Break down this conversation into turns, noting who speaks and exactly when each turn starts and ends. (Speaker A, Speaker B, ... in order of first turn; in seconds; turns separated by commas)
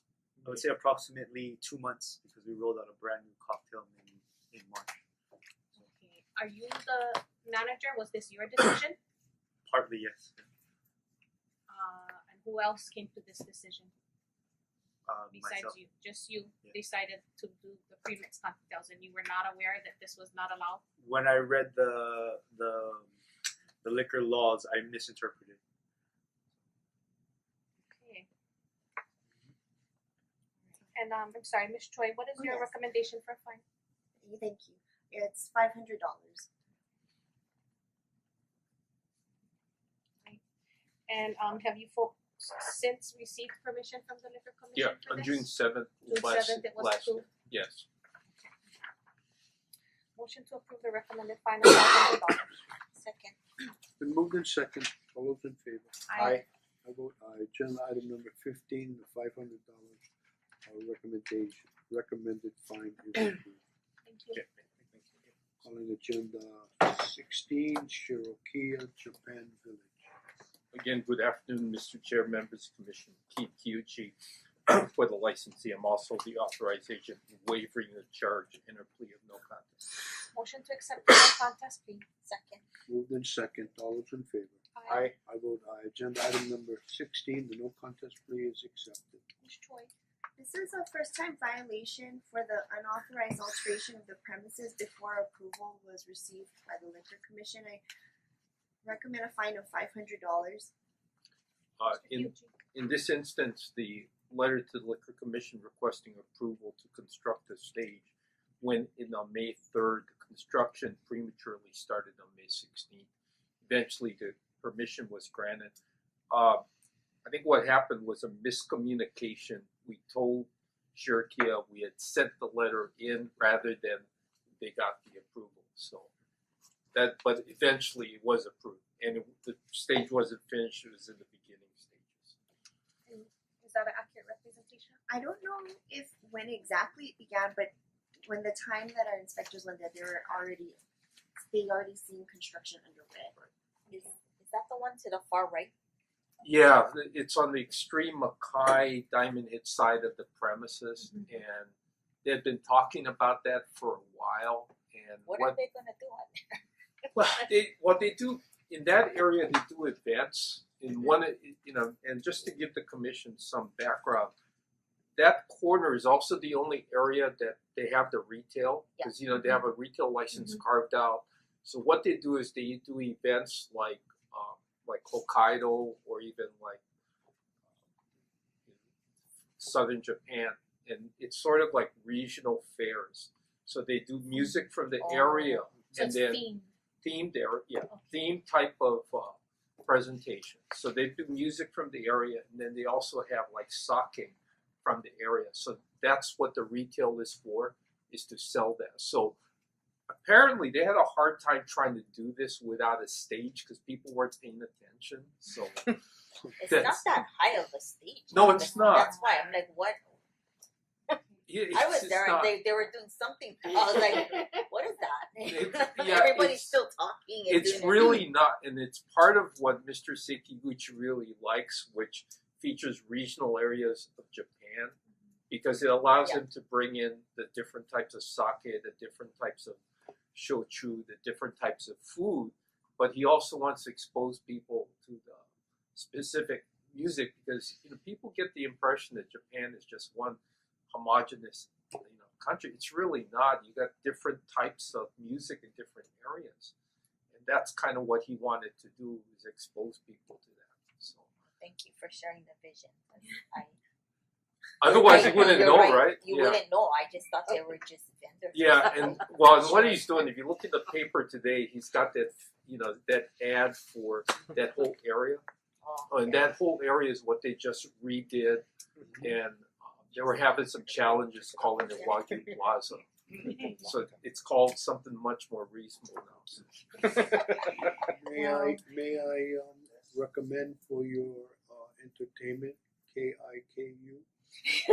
Speaker A: 0.4-5.0, Speaker B: 5.8-9.0, Speaker A: 9.7-10.4, Speaker B: 11.7-13.9, Speaker A: 15.1-15.8, Speaker B: 15.3-20.8, Speaker A: 21.0-23.1, Speaker A: 23.8-25.6, Speaker B: 27.9-28.3, Speaker B: 30.9-33.6, Speaker C: 32.4-32.7, Speaker C: 34.2-36.5, Speaker B: 41.1-45.5, Speaker D: 44.8-47.9, Speaker B: 46.1-47.3, Speaker B: 50.2-52.6, Speaker E: 53.0-53.4, Speaker F: 54.0-56.0, Speaker B: 56.1-56.4, Speaker A: 56.2-56.4, Speaker F: 56.8-60.0, Speaker F: 60.7-63.6, Speaker B: 64.1-64.4, Speaker F: 65.6-70.0, Speaker D: 70.7-74.2, Speaker D: 74.7-80.0, Speaker B: 80.3-82.1, Speaker E: 82.2-82.7, Speaker F: 82.9-89.2, Speaker B: 84.8-85.1, Speaker A: 84.9-85.1, Speaker B: 89.4-89.9, Speaker C: 90.4-97.8, Speaker C: 98.8-100.7, Speaker D: 101.8-108.1, Speaker B: 101.9-102.6, Speaker D: 108.6-113.1, Speaker D: 113.6-115.8, Speaker D: 116.3-116.6, Speaker D: 117.2-124.1, Speaker D: 124.6-126.1, Speaker D: 126.9-132.3, Speaker B: 133.1-135.0, Speaker C: 135.1-137.7, Speaker C: 138.2-140.8, Speaker C: 141.4-143.3, Speaker E: 143.9-145.7, Speaker B: 143.9-144.2, Speaker D: 146.4-151.7, Speaker D: 152.2-155.6, Speaker E: 155.3-156.6, Speaker D: 157.2-164.3, Speaker D: 165.2-176.8, Speaker D: 179.6-186.5, Speaker E: 185.0-185.7, Speaker B: 185.9-186.7, Speaker D: 187.0-199.4, Speaker B: 187.9-188.3, Speaker D: 200.1-206.0, Speaker E: 206.6-210.0, Speaker D: 206.7-207.1, Speaker D: 208.3-209.2, Speaker B: 208.8-209.5, Speaker D: 211.5-212.6, Speaker E: 211.7-218.2, Speaker D: 215.4-216.8, Speaker D: 217.5-225.0, Speaker D: 225.5-229.8, Speaker D: 230.3-235.4, Speaker D: 235.9-240.4, Speaker D: 240.9-246.7, Speaker D: 247.3-251.3, Speaker E: 251.5-253.8, Speaker D: 254.8-256.6, Speaker E: 254.8-260.0, Speaker D: 258.5-265.4, Speaker E: 265.8-266.5, Speaker D: 266.1-268.7, Speaker D: 269.2-277.2, Speaker F: 278.1-284.3, Speaker E: 278.4-278.7